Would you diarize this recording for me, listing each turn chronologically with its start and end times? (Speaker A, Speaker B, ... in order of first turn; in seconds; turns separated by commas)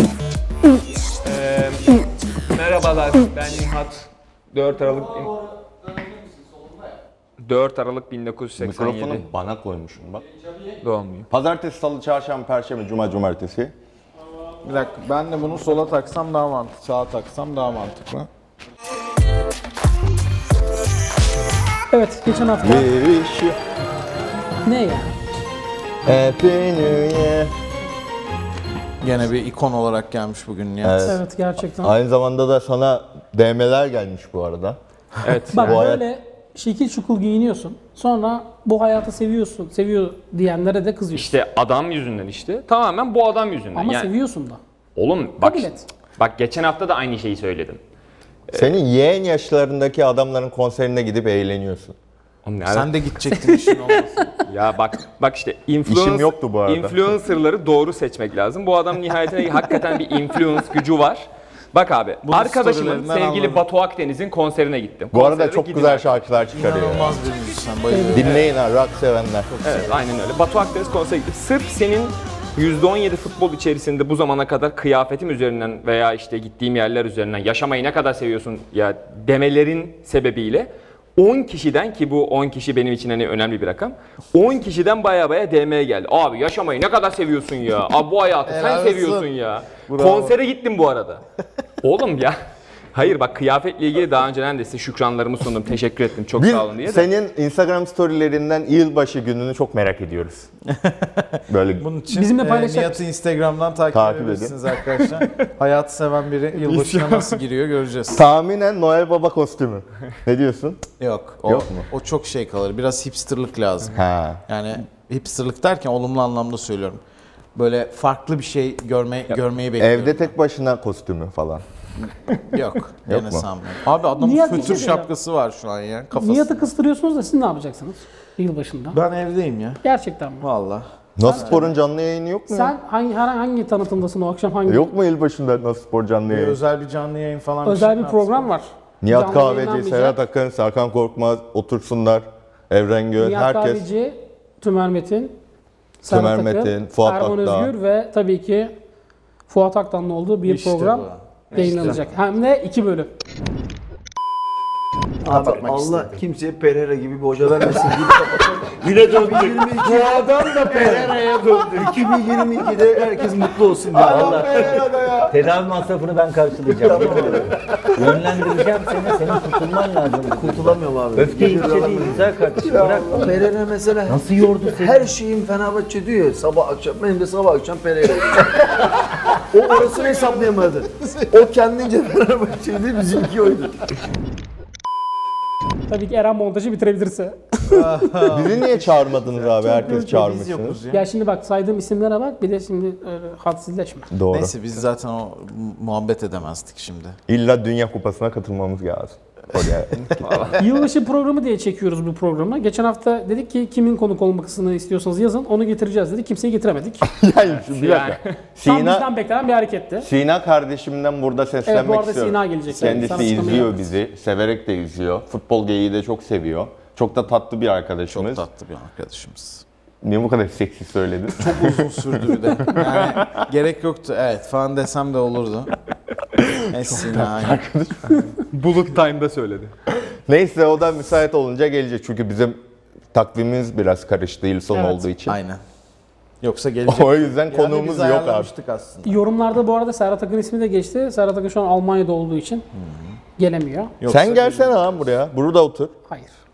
Speaker A: 1.2-2.0, Speaker A: 2.5-5.4, Speaker A: 7.4-9.2, Speaker B: 8.6-10.2, Speaker A: 10.6-11.3, Speaker B: 11.3-13.7, Speaker C: 14.6-18.3, Speaker D: 21.9-22.9, Speaker B: 22.6-23.6, Speaker D: 24.6-25.1, Speaker B: 26.1-27.5, Speaker C: 29.0-31.2, Speaker B: 30.8-34.8, Speaker D: 31.0-31.9, Speaker A: 35.2-35.8, Speaker D: 35.5-41.3, Speaker B: 35.5-36.0, Speaker A: 41.1-44.1, Speaker D: 43.8-44.6, Speaker A: 45.0-47.8, Speaker D: 45.4-45.9, Speaker B: 48.5-52.0, Speaker A: 52.5-53.8, Speaker C: 52.7-54.3, Speaker A: 54.5-66.3, Speaker B: 55.9-57.0, Speaker C: 62.2-63.6, Speaker B: 65.1-67.2, Speaker C: 66.5-68.5, Speaker D: 67.9-68.3, Speaker B: 68.1-69.5, Speaker A: 68.2-68.5, Speaker C: 69.5-70.1, Speaker A: 69.6-91.2, Speaker C: 88.5-89.3, Speaker C: 89.9-90.4, Speaker A: 91.8-92.4, Speaker A: 92.9-97.1, Speaker B: 96.4-100.5, Speaker C: 100.7-108.2, Speaker B: 101.5-101.9, Speaker D: 102.1-103.0, Speaker B: 103.9-104.6, Speaker A: 104.9-105.5, Speaker A: 106.5-107.4, Speaker B: 108.1-110.8, Speaker C: 111.0-117.0, Speaker B: 111.5-111.9, Speaker B: 113.9-114.4, Speaker C: 117.5-120.3, Speaker B: 119.8-121.6, Speaker C: 122.1-126.7, Speaker B: 123.1-123.5, Speaker D: 124.2-125.1, Speaker D: 126.1-129.0, Speaker C: 128.9-129.8, Speaker D: 129.8-130.5, Speaker C: 130.4-131.7, Speaker B: 131.2-132.8, Speaker D: 131.2-131.6, Speaker D: 132.5-134.9, Speaker B: 134.7-136.6, Speaker C: 136.3-138.5, Speaker D: 137.7-140.2, Speaker B: 139.0-143.9, Speaker D: 143.2-145.3, Speaker D: 146.0-148.7, Speaker B: 146.1-147.7, Speaker D: 149.5-153.1, Speaker C: 150.4-152.0, Speaker E: 151.6-151.9, Speaker E: 155.2-165.3, Speaker C: 155.3-156.1, Speaker F: 155.4-155.9, Speaker F: 158.8-163.3, Speaker F: 163.8-173.5, Speaker B: 164.0-165.3, Speaker E: 166.7-168.4, Speaker E: 170.3-183.8, Speaker F: 174.1-175.1, Speaker D: 185.9-187.8, Speaker C: 187.6-191.1, Speaker B: 188.3-190.8, Speaker D: 189.7-190.1, Speaker D: 190.9-194.1, Speaker B: 194.1-194.6, Speaker C: 194.3-197.2, Speaker B: 197.3-199.9, Speaker A: 200.1-200.6, Speaker D: 200.6-207.1, Speaker B: 207.1-209.1, Speaker A: 207.4-208.4, Speaker D: 208.7-210.1, Speaker B: 210.0-218.4, Speaker D: 211.7-213.7, Speaker C: 212.8-213.7, Speaker C: 218.1-219.7, Speaker B: 220.0-222.2, Speaker C: 221.4-225.7, Speaker B: 222.7-223.4, Speaker B: 226.4-228.3, Speaker C: 226.7-227.6, Speaker A: 228.5-229.7, Speaker B: 230.1-232.6, Speaker B: 233.1-235.4, Speaker D: 234.8-235.0, Speaker C: 235.3-235.6, Speaker C: 236.4-239.2, Speaker B: 236.9-238.5, Speaker D: 239.0-242.7, Speaker C: 242.8-243.2, Speaker D: 243.4-243.9, Speaker C: 244.0-245.0, Speaker B: 244.1-245.9, Speaker D: 246.1-246.3